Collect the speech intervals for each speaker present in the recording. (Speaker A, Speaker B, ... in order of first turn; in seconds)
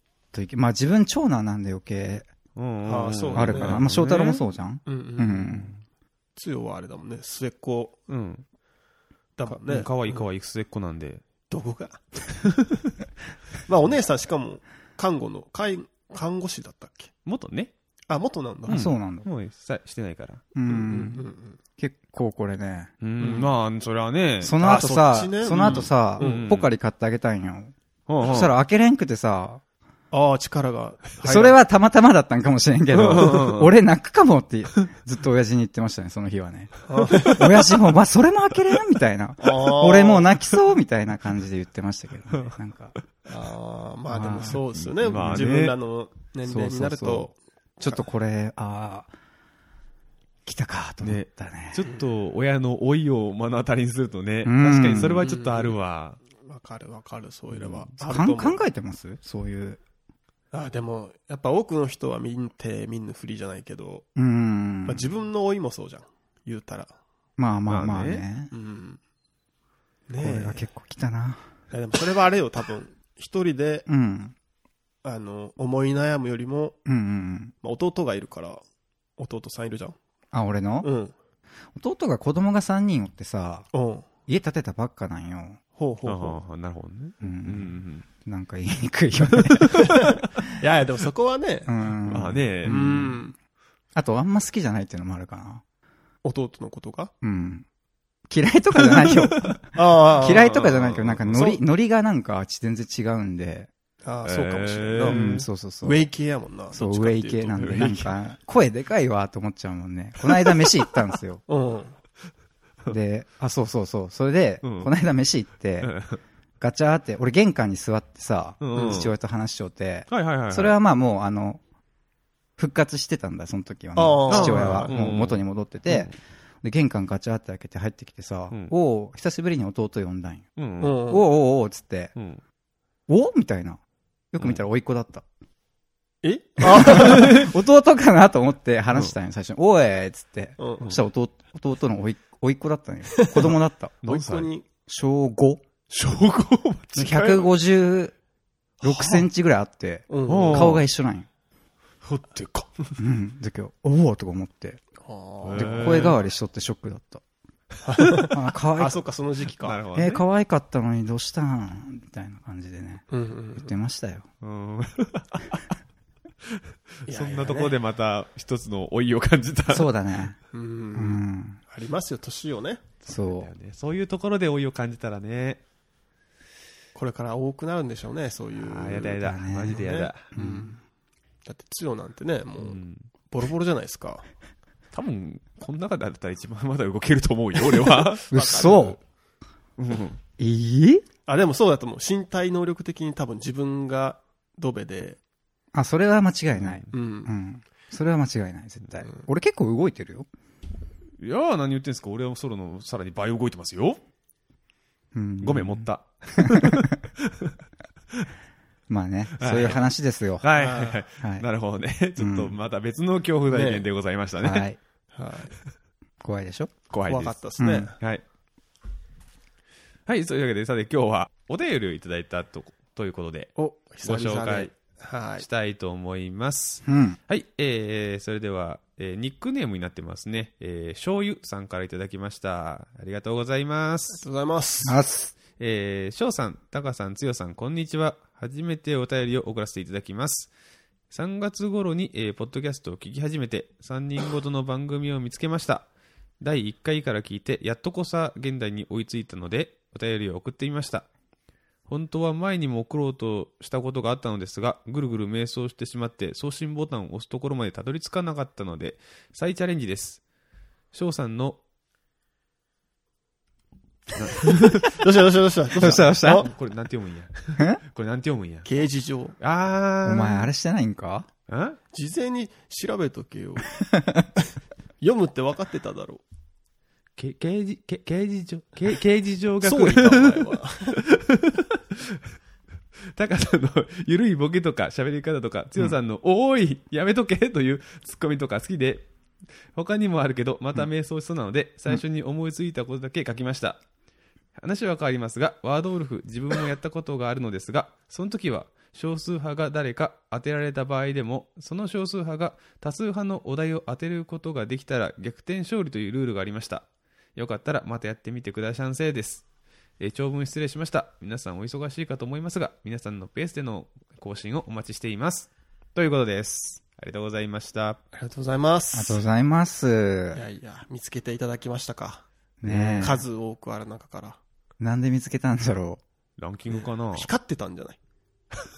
Speaker A: 0.3-2.3, 3.4-5.7, 18.7-19.3, 20.6-21.2, 21.8-22.9, 24.4-29.6, 31.2-43.0, 44.1-44.6, 45.2-45.5, 46.5-49.1, 50.5-51.9, 54.5-55.3, 58.0-59.8, 64.2-65.1, 67.4-68.5, 70.2-71.4, 73.9-74.3, 76.9-77.5, 80.3-80.9, 81.8-83.7, 84.3-85.6, 87.2-90.0, 91.7-93.2, 94.0-95.6, 97.2-97.7, 98.3-103.7, 105.1-106.1, 106.7-111.4, 112.9-115.9, 116.6-121.6, 122.6-130.5, 131.1-132.1, 133.1-133.8, 134.3-135.2, 136.6-143.9, 144.9-145.6, 147.0-148.2, 148.8-151.3, 153.0-154.8, 155.6-157.2, 158.3-159.0, 159.9-163.1, 163.6-164.3, 169.7-170.4, 170.9-171.6, 173.1-173.5, 179.2-179.8, 180.3-180.7, 188.3-189.0, 190.4-191.1, 195.7-200.3, 205.1-205.9, 206.4-206.9, 208.9-210.4, 211.2-211.5, 212.2-212.6, 214.4-214.8, 216.2-216.8, 217.6-217.9, 226.9-227.2, 234.9-235.3, 265.8-266.5, 270.0-271.3, 273.9-274.3, 318.9-320.4, 322.6-323.2, 324.8-326.0
Speaker B: 2.6-4.4, 8.1-8.4, 9.5-11.2, 17.3-17.7, 18.7-20.4, 23.0-24.6, 25.6-26.7, 28.1-28.6, 32.9-33.7, 45.0-45.8, 51.0-56.2, 57.6-57.9, 67.7-68.2, 86.1-88.0, 89.3-90.0, 92.1-92.8, 98.9-99.6, 100.2-101.3, 104.2-105.5, 107.6-108.0, 114.6-114.9, 115.8-116.2, 118.6-119.1, 120.1-120.8, 124.3-126.1, 130.6-131.0, 132.2-132.4, 144.0-144.5, 145.9-147.5, 150.3-150.8, 152.0-153.0, 155.4-156.2, 159.6-160.2, 164.4-165.7, 167.1-169.9, 173.2-175.6, 178.6-180.3, 182.6-183.1, 184.9-188.3, 189.8-190.2, 196.5-196.9, 201.2-204.0, 205.4-207.6, 209.4-209.8, 210.4-214.7, 216.9-218.2, 220.1-224.7, 225.4-234.2, 235.6-240.5, 241.1-245.9, 246.4-251.1, 251.9-260.2, 260.9-261.6, 264.2-264.9, 265.8-268.7, 269.4-270.5, 271.5-271.8, 277.2-282.2, 283.1-289.1, 289.7-293.8, 294.6-306.9, 307.4-309.4, 310.0-318.0, 326.4-327.3
Speaker C: 2.8-3.8, 4.9-5.6, 6.4-8.1, 9.4-10.3, 11.5-12.0, 13.7-17.1, 18.1-18.9, 20.7-21.6, 23.2-23.5, 24.6-26.5, 30.1-31.6, 36.9-37.5, 39.4-40.3, 43.3-48.1, 55.2-55.8, 56.4-58.6, 60.5-64.1, 64.8-67.0, 68.5-69.0, 70.1-70.7, 71.7-73.9, 75.0-76.8, 77.6-78.6, 79.2-80.0, 80.8-81.1, 83.7-84.1, 85.8-86.4, 89.9-91.8, 92.7-93.3, 96.2-97.1, 99.7-101.6, 104.0-105.2, 105.8-108.0, 111.5-112.0, 118.7-119.0, 124.0-125.0, 130.8-131.3, 136.2-137.4, 140.6-140.9, 143.1-144.7, 150.1-150.8, 155.0-156.2, 157.8-159.8, 163.1-163.7, 167.1-167.8, 170.5-172.9, 176.9-180.8, 181.4-184.2, 188.3-189.0, 191.3-195.2, 196.9-197.3, 210.5-211.0, 213.5-213.8, 215.1-215.5, 217.1-217.9, 223.6-225.5, 234.1-235.0, 264.9-266.5, 268.6-269.4, 271.9-273.7, 275.0-276.2, 279.6-281.0, 318.1-319.2, 320.3-324.4, 326.7-328.0